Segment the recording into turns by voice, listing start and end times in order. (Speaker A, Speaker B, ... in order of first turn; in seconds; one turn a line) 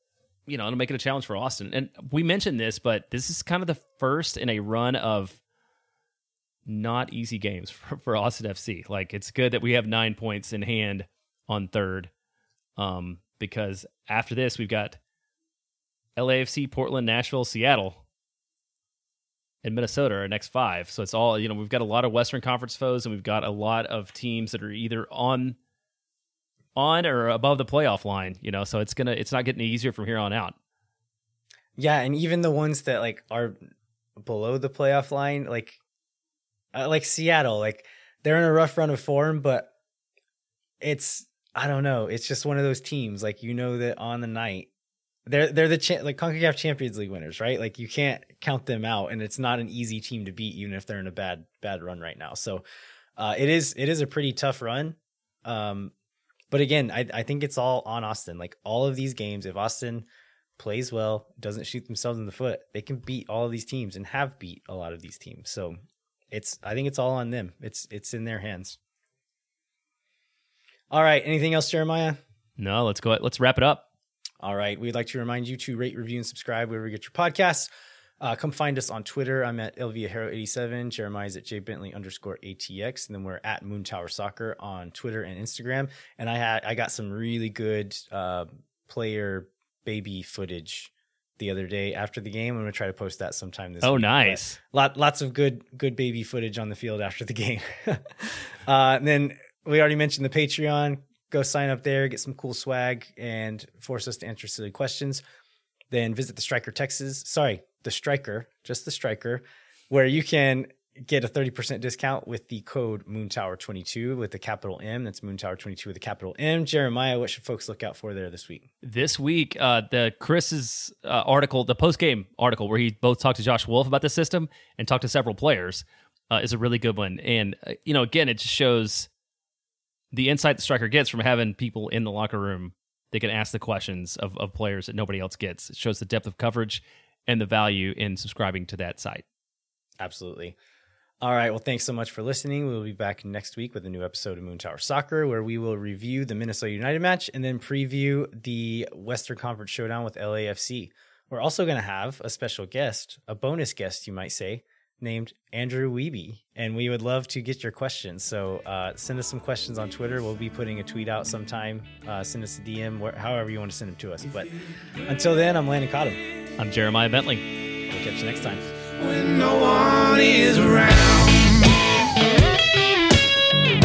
Speaker A: 0.5-5.4
Speaker A: 6.6-12.1
Speaker A: 12.8-15.0
Speaker A: 16.1-18.0
Speaker A: 19.6-25.6
Speaker A: 26.7-30.6
Speaker B: 31.8-33.6
Speaker B: 34.2-35.8
Speaker B: 36.7-39.7
Speaker B: 40.8-44.7
Speaker B: 45.3-52.6
Speaker B: 53.2-55.9
Speaker B: 56.5-60.0
Speaker B: 60.6-65.8
Speaker B: 66.3-68.8
Speaker B: 70.9-72.2
Speaker A: 72.6-73.8
Speaker B: 74.4-77.7
Speaker B: 78.2-105.2
Speaker A: 93.8-94.6
Speaker B: 105.9-118.7
Speaker A: 118.8-129.1
Speaker A: 130.1-139.2
Speaker B: 140.0-140.6
Speaker B: 141.2-164.5
Speaker B: 165.0-166.2
Speaker A: 166.6-167.4
Speaker B: 167.9-168.7
Speaker C: 169.0-171.7